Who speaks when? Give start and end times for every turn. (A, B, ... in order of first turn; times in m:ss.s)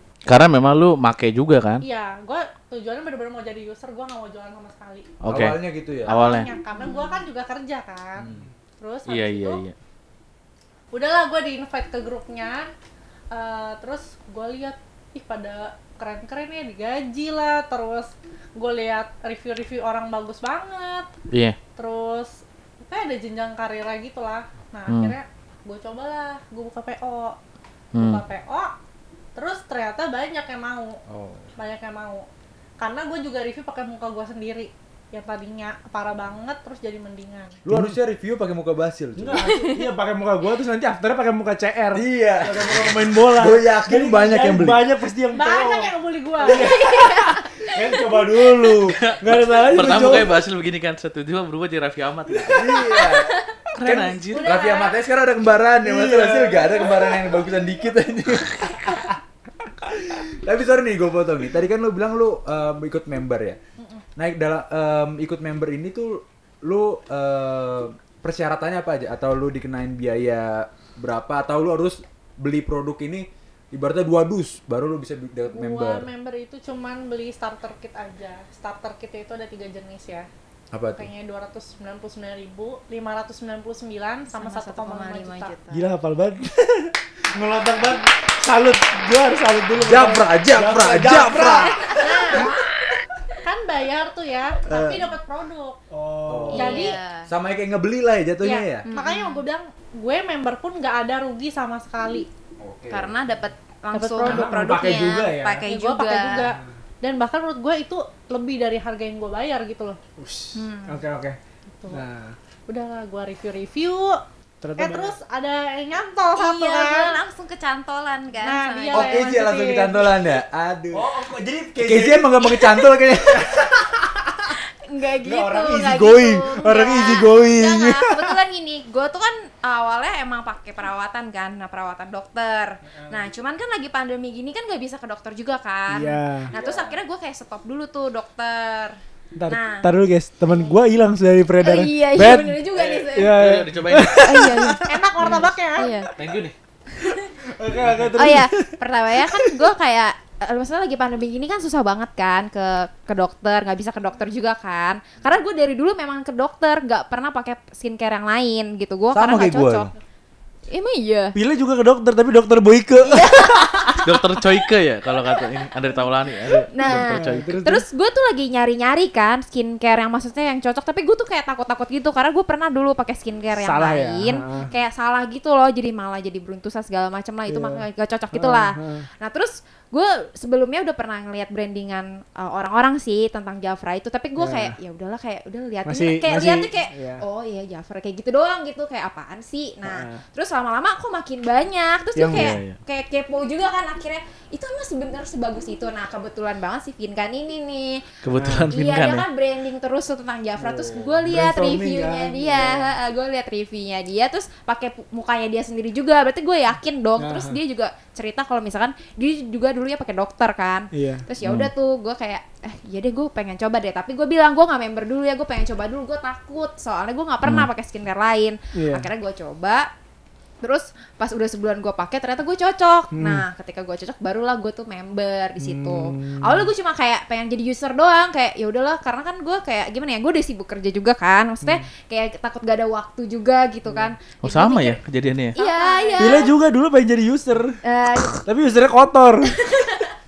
0:00.2-0:01.8 A
0:01.8-0:05.2 B
0:05.2-0:06.5 A
0:05.3-0:06.2 C
0:06.0-0:09.6 B
0:06.8-0:07.2 D
0:08.2-0:08.5 C
0:09.1-0:09.7 A
0:10.9-0:12.7 B
0:13.3-0:21.1 B
0:21.3-0:21.6 A
0:21.7-0:27.4 B
0:24.9-0:25.2 A
0:27.9-0:28.2 A
0:27.9-0:28.7 B
0:29.3-0:31.0 B
0:31.1-0:31.5 C
0:31.6-0:32.2 B
0:32.8-0:37.6 B
0:37.6-0:39.4 C
0:37.7-0:38.0 E
0:39.2-0:50.3 E
0:41.9-0:44.8 C
0:45.3-0:46.7 B
0:46.7-0:47.7 D
0:48.8-0:52.7 A
0:49.7-0:50.2 C
0:52.4-0:53.3 C
0:52.9-0:53.4 D
0:53.8-0:54.5 A
0:53.8-0:59.2 C
0:54.2-0:55.0 B
0:55.8-0:57.3 E
0:59.8-1:03.6 C
1:03.8-1:04.0 B
1:04.2-1:16.1 C
1:15.4-1:20.3 B
1:20.7-1:21.1 C
1:20.9-1:25.5 B
1:24.3-1:25.8 D
1:25.7-1:32.5 E
1:29.8-1:31.8 C
1:31.6-1:32.6 D
1:32.0-1:32.5 B
1:33.4-1:35.8 B
1:34.7-1:35.1 C
1:35.9-1:36.8 E
1:36.3-1:38.9 C
1:36.5-1:37.3 D
1:36.5-1:37.0 B
1:38.4-1:42.3 B
1:38.8-1:39.4 D
1:42.6-1:43.1 C
1:42.9-1:46.6 D
1:43.9-1:44.5 B
1:44.2-1:45.6 E
1:45.6-1:50.0 B
1:50.2-1:51.4 E
1:50.5-1:51.0 D
1:51.9-1:52.4 E
1:52.7-1:54.2 B
1:54.6-1:55.2 E
1:54.8-1:57.2 B
1:56.4-1:59.2 D
1:58.4-2:00.3 B
1:58.9-2:01.1 C
2:00.9-2:02.5 E
2:01.8-2:03.5 C
2:03.5-2:04.0 E
2:04.5-2:19.0 D
2:05.2-2:08.4 E
2:15.9-2:16.5 E
2:16.5-2:17.0 C
2:19.4-2:25.3 E
2:19.5-2:19.9 D
2:21.6-2:23.4 D
2:23.2-2:24.2 A
2:24.2-2:26.1 D
2:24.8-2:26.0 B
2:26.1-2:26.5 A
2:27.4-2:29.6 E
2:28.1-2:39.9 D
2:39.1-2:39.9 C
2:40.7-2:41.4 D
2:41.3-2:44.4 E
2:43.0-2:44.0 D
2:44.0-2:47.5 A
2:46.7-3:18.1 D
2:46.8-2:47.8 E
2:53.5-2:54.7 E
2:57.5-2:59.0 E
3:04.4-3:04.8 E
3:05.8-3:07.2 E
3:09.8-3:10.2 E
3:12.2-3:12.6 E
3:12.3-3:12.8 A
3:18.2-3:19.3 A
3:18.3-3:18.7 E
3:18.7-3:39.9 D
3:20.6-3:22.9 E
3:27.2-3:27.6 E
3:30.9-3:31.2 E
3:31.4-3:31.7 A
3:38.7-3:39.1 E
3:40.6-3:55.0 D
3:43.1-3:43.4 E
3:45.6-3:46.7 E
3:53.8-3:54.1 E
3:54.4-3:55.6 A
3:55.6-3:56.5 B
3:55.6-3:56.5 D
3:56.2-3:57.8 E
3:57.8-3:58.5 D
3:58.4-3:59.6 E
3:59.5-4:00.1 D